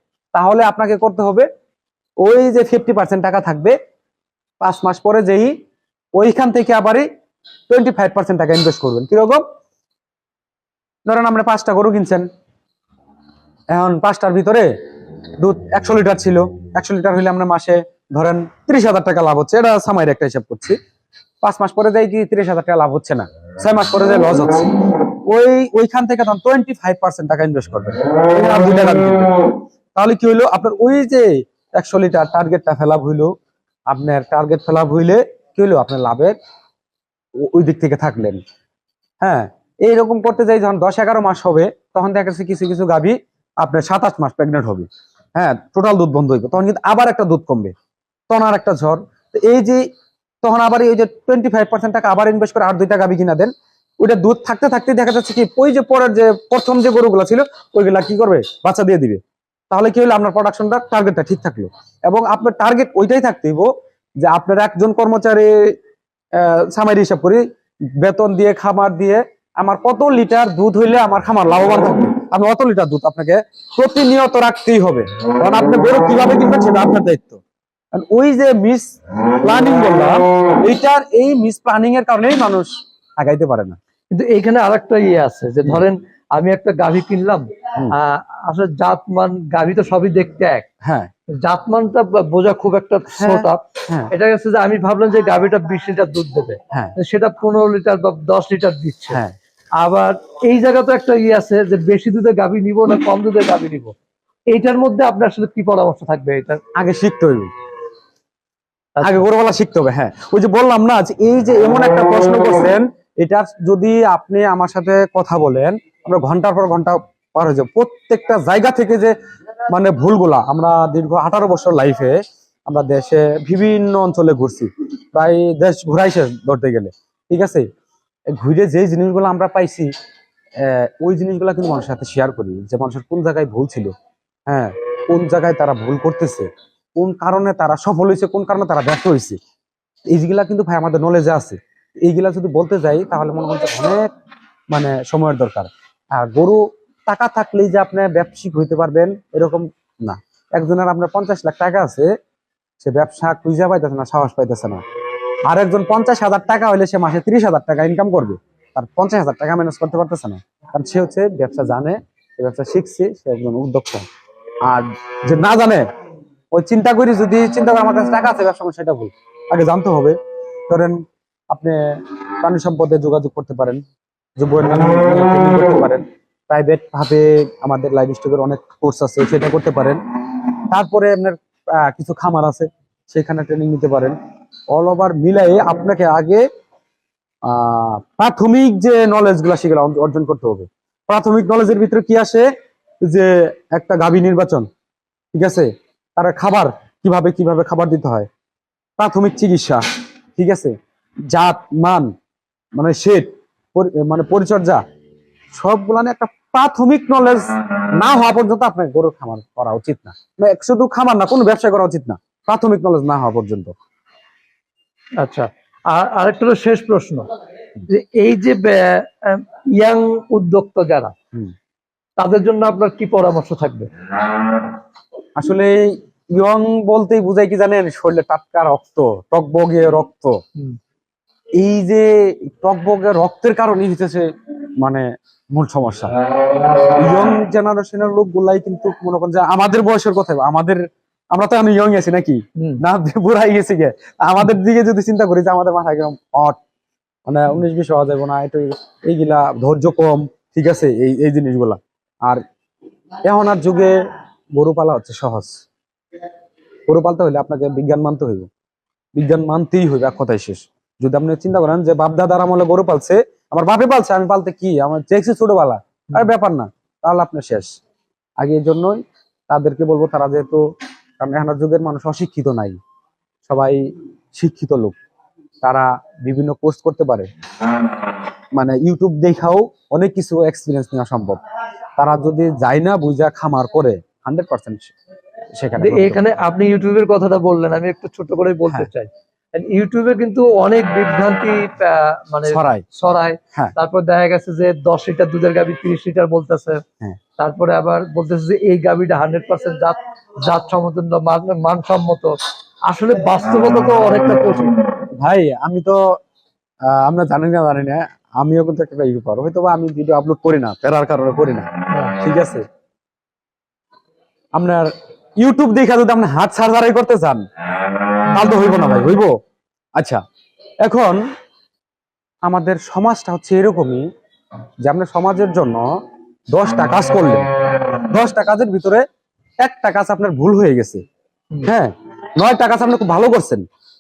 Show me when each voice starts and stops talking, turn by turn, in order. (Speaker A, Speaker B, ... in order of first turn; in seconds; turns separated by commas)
Speaker A: 0.3-1.5, Speaker A: 2.2-3.7, Speaker A: 4.6-5.5, Speaker A: 6.1-7.0, Speaker A: 7.7-9.4, Speaker A: 11.1-12.3, Speaker A: 13.7-14.7, Speaker A: 15.4-20.8, Speaker A: 21.4-29.4, Speaker A: 29.9-33.3, Speaker A: 33.9-36.4, Speaker A: 37.4-38.4, Speaker A: 39.2-47.7, Speaker A: 48.3-49.9, Speaker A: 50.4-63.7, Speaker A: 64.2-65.8, Speaker A: 66.3-67.4, Speaker A: 68.0-77.4, Speaker A: 77.9-78.9, Speaker A: 79.4-83.8, Speaker B: 84.1-90.6, Speaker A: 90.8-91.1, Speaker B: 91.4-99.2, Speaker A: 93.1-94.1, Speaker B: 99.7-103.9, Speaker B: 104.5-106.6, Speaker A: 106.8-107.5, Speaker B: 109.0-109.2, Speaker A: 109.0-119.1, Speaker A: 119.7-127.7, Speaker A: 128.3-129.9, Speaker A: 130.6-133.9, Speaker A: 134.5-139.4, Speaker A: 140.1-144.1, Speaker A: 144.7-152.1, Speaker A: 152.8-154.8, Speaker A: 155.5-164.1, Speaker A: 164.6-165.8, Speaker A: 166.5-170.2, Speaker A: 170.7-173.8, Speaker A: 174.4-180.0, Speaker A: 180.7-184.2, Speaker A: 184.7-186.4, Speaker A: 187.4-192.5, Speaker A: 193.0-194.7, Speaker A: 195.3-198.3, Speaker A: 199.0-199.8, Speaker A: 200.3-200.7, Speaker A: 201.3-202.1, Speaker A: 202.8-204.8, Speaker A: 205.5-213.7, Speaker B: 215.2-217.3, Speaker B: 217.9-221.1, Speaker B: 222.2-223.9, Speaker A: 225.3-230.4, Speaker A: 231.6-234.2, Speaker A: 234.8-236.1, Speaker A: 237.0-246.6, Speaker A: 247.3-252.4, Speaker A: 253.2-254.0, Speaker A: 254.5-255.6, Speaker A: 256.9-258.5, Speaker A: 259.1-267.7, Speaker A: 268.4-270.6, Speaker A: 271.2-272.8, Speaker A: 273.4-273.8, Speaker A: 274.3-275.0, Speaker A: 275.6-277.3, Speaker A: 278.5-281.4, Speaker A: 282.0-284.9, Speaker A: 285.5-286.2, Speaker B: 285.8-296.8, Speaker A: 292.5-292.8, Speaker B: 297.4-304.8, Speaker A: 305.2-306.1, Speaker A: 306.8-312.6, Speaker A: 314.5-317.4, Speaker A: 318.3-319.3, Speaker A: 320.8-321.2, Speaker A: 322.4-324.1, Speaker A: 324.8-325.9, Speaker A: 326.5-327.5, Speaker A: 328.1-329.0, Speaker A: 329.6-331.0, Speaker A: 331.6-333.6